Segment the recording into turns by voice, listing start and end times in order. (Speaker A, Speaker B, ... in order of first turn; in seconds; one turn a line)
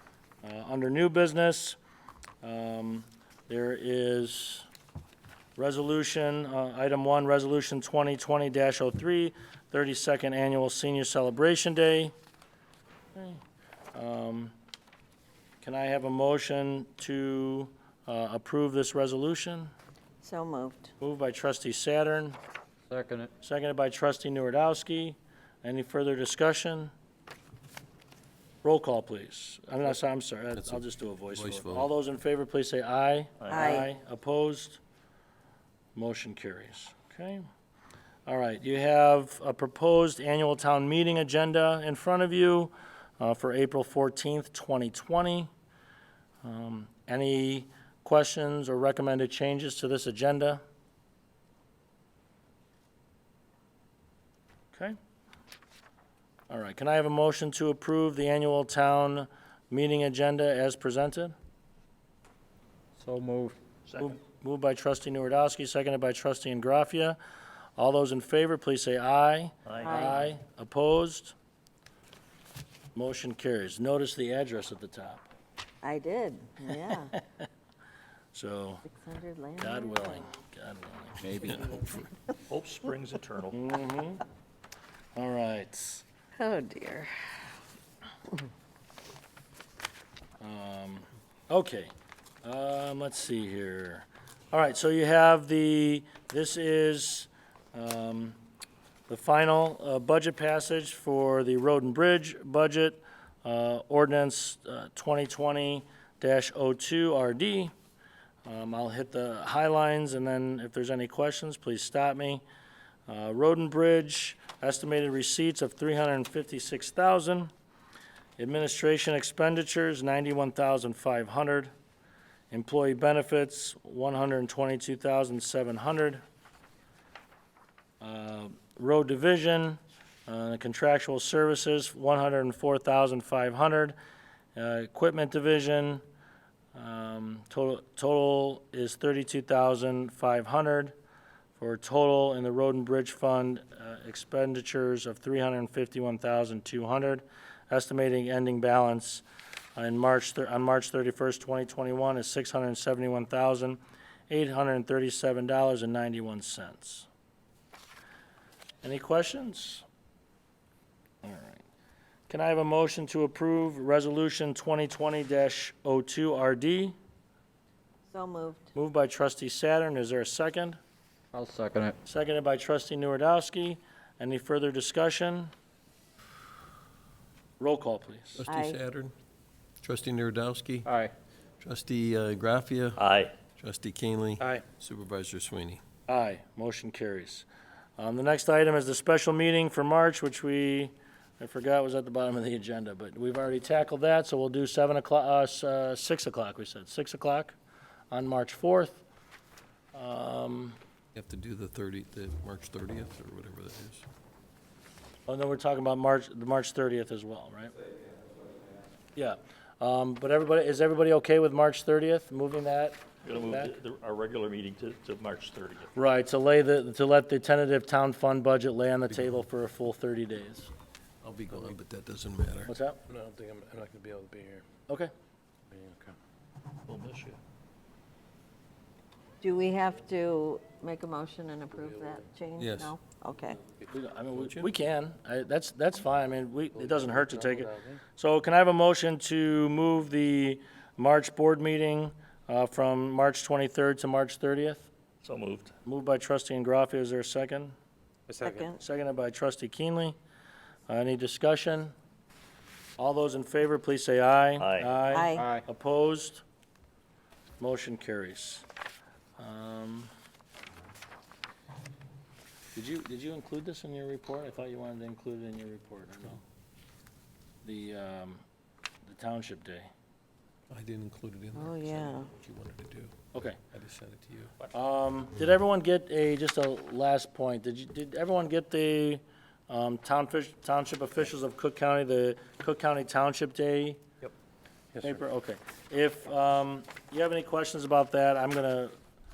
Speaker A: 0.4-1.8
Speaker A: 2.4-4.7
Speaker A: 5.6-12.1
Speaker A: 13.1-13.4
Speaker A: 13.9-14.5
Speaker A: 15.6-19.7
Speaker B: 20.2-20.9
Speaker A: 21.0-22.4
Speaker C: 22.9-23.3
Speaker A: 23.4-26.9
Speaker A: 28.6-34.8
Speaker D: 30.6-31.9
Speaker E: 33.4-33.8
Speaker B: 33.5-33.9
Speaker A: 35.9-37.5
Speaker A: 38.2-45.5
Speaker A: 46.4-50.6
Speaker A: 56.5-61.3
Speaker C: 63.0-63.5
Speaker E: 63.9-64.1
Speaker A: 64.0-67.2
Speaker A: 67.8-71.3
Speaker E: 69.7-70.1
Speaker B: 69.8-70.2
Speaker A: 72.9-75.2
Speaker B: 75.8-77.1
Speaker A: 78.3-78.8
Speaker B: 78.9-80.2
Speaker A: 79.6-81.7
Speaker C: 81.2-82.0
Speaker B: 81.4-81.9
Speaker E: 82.5-83.6
Speaker A: 83.5-84.2
Speaker A: 85.2-86.0
Speaker B: 86.4-87.4
Speaker A: 90.4-91.9
Speaker A: 92.4-98.4
Speaker A: 99.1-107.7
Speaker A: 108.4-112.4
Speaker A: 113.1-117.5
Speaker A: 118.4-121.7
Speaker A: 122.5-126.2
Speaker A: 128.0-133.9
Speaker A: 134.5-136.0
Speaker A: 136.7-140.9
Speaker A: 141.6-149.2
Speaker A: 149.8-153.8
Speaker A: 154.3-157.1
Speaker A: 158.8-159.8
Speaker A: 161.2-161.6
Speaker A: 162.3-166.9
Speaker B: 168.1-168.7
Speaker A: 168.7-170.8
Speaker C: 171.3-171.9
Speaker A: 172.0-175.5
Speaker A: 177.6-178.4
Speaker D: 178.3-179.1
Speaker B: 178.5-178.8
Speaker D: 179.8-180.9
Speaker C: 180.8-181.1
Speaker D: 181.6-185.8
Speaker E: 183.0-183.3
Speaker A: 186.1-187.5
Speaker A: 188.0-197.6
Speaker A: 198.1-199.1
Speaker A: 199.9-200.8
Speaker D: 201.1-204.0
Speaker A: 205.3-207.7
Speaker A: 209.1-213.7
Speaker E: 213.2-215.9
Speaker A: 215.9-220.7
Speaker D: 221.2-222.7
Speaker A: 222.7-223.0
Speaker F: 223.1-224.7
Speaker F: 225.7-226.1
Speaker A: 226.9-227.3
Speaker B: 229.4-233.6
Speaker D: 232.6-232.9
Speaker A: 233.9-244.9
Speaker D: 234.3-234.7
Speaker F: 236.8-238.0
Speaker E: 245.2-245.7
Speaker A: 245.8-247.7
Speaker F: 248.3-248.7
Speaker B: 248.4-248.8
Speaker A: 248.8-250.2
Speaker A: 250.9-251.9
Speaker A: 253.0-256.4
Speaker E: 254.6-255.0
Speaker B: 255.1-255.5
Speaker A: 257.6-258.6
Speaker A: 259.4-260.1
Speaker A: 262.7-266.4
Speaker A: 267.6-268.4
Speaker A: 269.1-269.9
Speaker D: 270.7-273.1
Speaker B: 271.5-272.3
Speaker A: 273.3-273.6
Speaker D: 273.7-274.5
Speaker A: 274.7-284.0
Speaker F: 284.9-285.2
Speaker A: 285.0-288.9